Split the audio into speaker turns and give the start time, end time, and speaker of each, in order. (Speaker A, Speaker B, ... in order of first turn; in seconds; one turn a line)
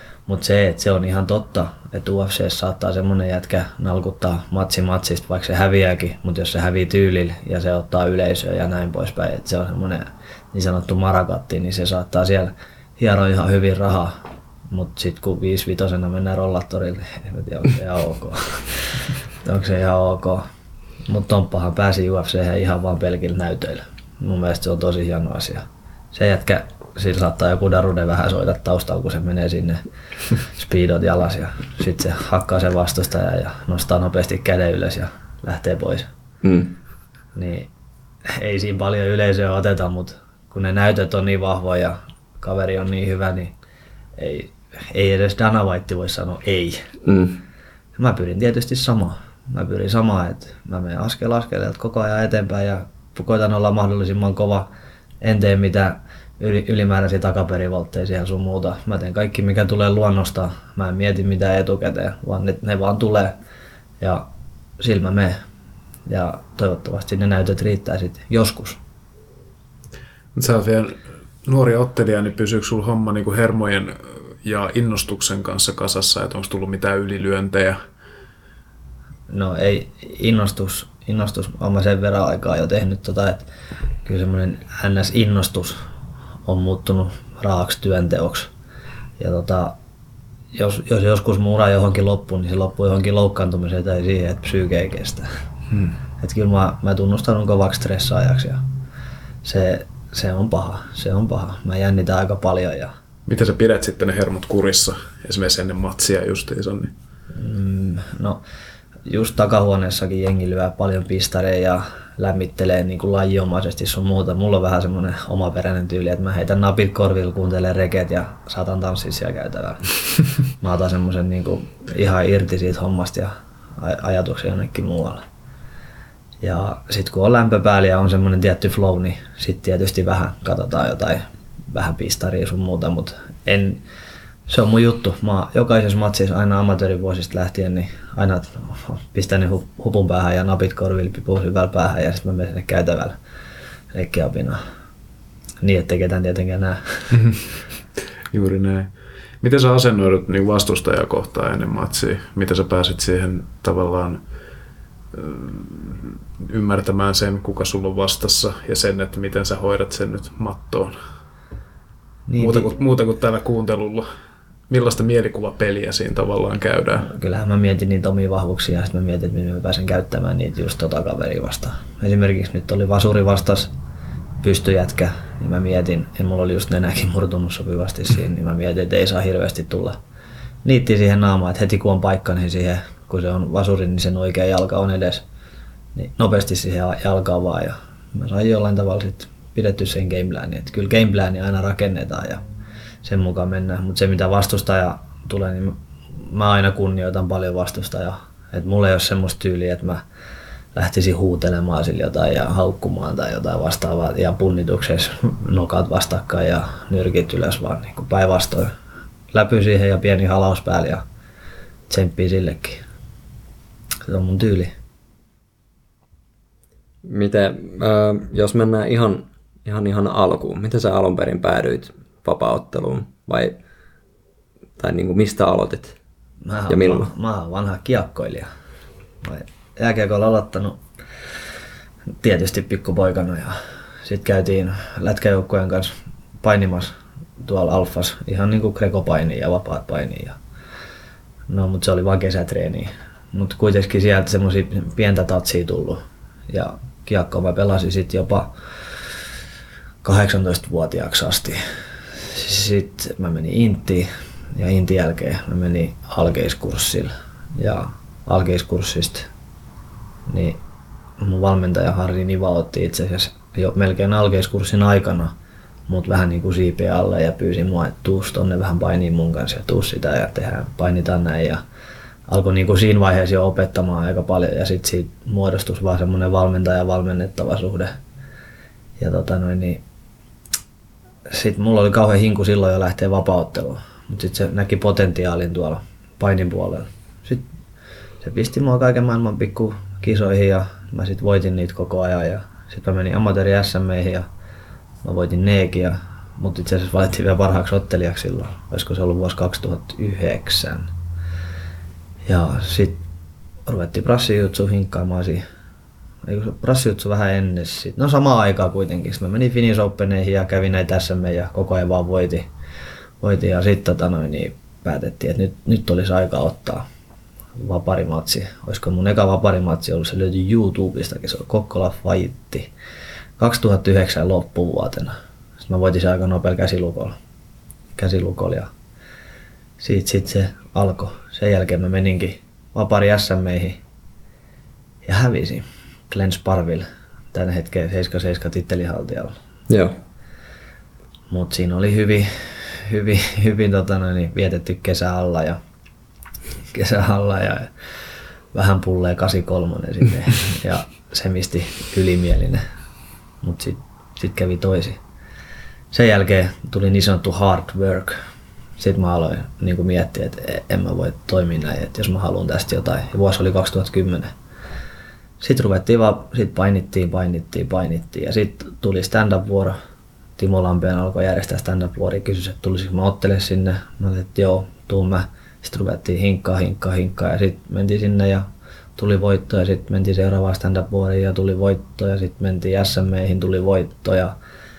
Speaker A: 0.3-14.1
Speaker A: 14.7-20.4
Speaker A: 21.1-29.8
Speaker A: 30.4-36.1
Speaker B: 36.4-36.8
Speaker A: 37.3-37.7
Speaker A: 38.2-43.5
Speaker A: 44.1-46.9
Speaker B: 47.0-47.4
Speaker A: 48.0-54.7
Speaker A: 55.2-63.4
Speaker A: 64.0-65.4
Speaker A: 66.1-68.8
Speaker C: 70.3-77.8
Speaker A: 79.3-83.5
Speaker A: 84.0-85.8
Speaker A: 86.4-88.5
Speaker A: 89.2-89.8
Speaker A: 90.5-95.3
Speaker A: 96.2-98.6
Speaker A: 99.4-102.9
Speaker C: 103.3-106.9
Speaker A: 107.3-108.4
Speaker A: 109.1-119.9
Speaker A: 120.6-125.2
Speaker A: 126.4-133.8
Speaker A: 134.5-143.2
Speaker A: 143.9-144.6
Speaker A: 145.6-147.2
Speaker C: 147.1-147.4
Speaker C: 148.3-154.2
Speaker C: 155.1-160.9
Speaker A: 162.3-162.8
Speaker C: 162.4-164.0
Speaker C: 164.7-167.1
Speaker A: 167.0-173.7
Speaker A: 174.4-180.0
Speaker A: 180.6-185.2
Speaker A: 185.9-192.4
Speaker A: 193.0-200.0
Speaker A: 200.7-208.7
Speaker A: 209.3-211.0
Speaker A: 211.9-212.8
Speaker A: 214.1-214.7
Speaker B: 217.0-223.6
Speaker B: 224.8-226.0
Speaker A: 226.4-228.5
Speaker B: 226.7-227.1
Speaker A: 229.2-230.8
Speaker A: 232.2-240.4
Speaker A: 241.5-248.5
Speaker A: 250.0-251.6
Speaker A: 252.1-259.3
Speaker A: 260.3-260.6
Speaker A: 261.2-265.3
Speaker A: 265.9-271.6
Speaker A: 272.3-278.0
Speaker A: 279.0-279.8
Speaker A: 281.3-287.5
Speaker A: 288.2-294.2
Speaker A: 295.0-300.9
Speaker A: 302.3-303.0
Speaker A: 303.6-305.4
Speaker A: 306.2-312.5
Speaker A: 313.2-316.8
Speaker A: 317.6-322.7
Speaker A: 323.4-327.1
Speaker A: 328.0-328.7
Speaker A: 329.8-333.8
Speaker A: 335.0-339.3
Speaker B: 339.7-340.0
Speaker A: 341.3-345.6
Speaker A: 346.7-347.7
Speaker A: 348.5-352.6
Speaker A: 353.4-355.0
Speaker A: 355.9-358.2
Speaker A: 358.8-364.3
Speaker A: 365.4-369.8
Speaker A: 370.4-384.3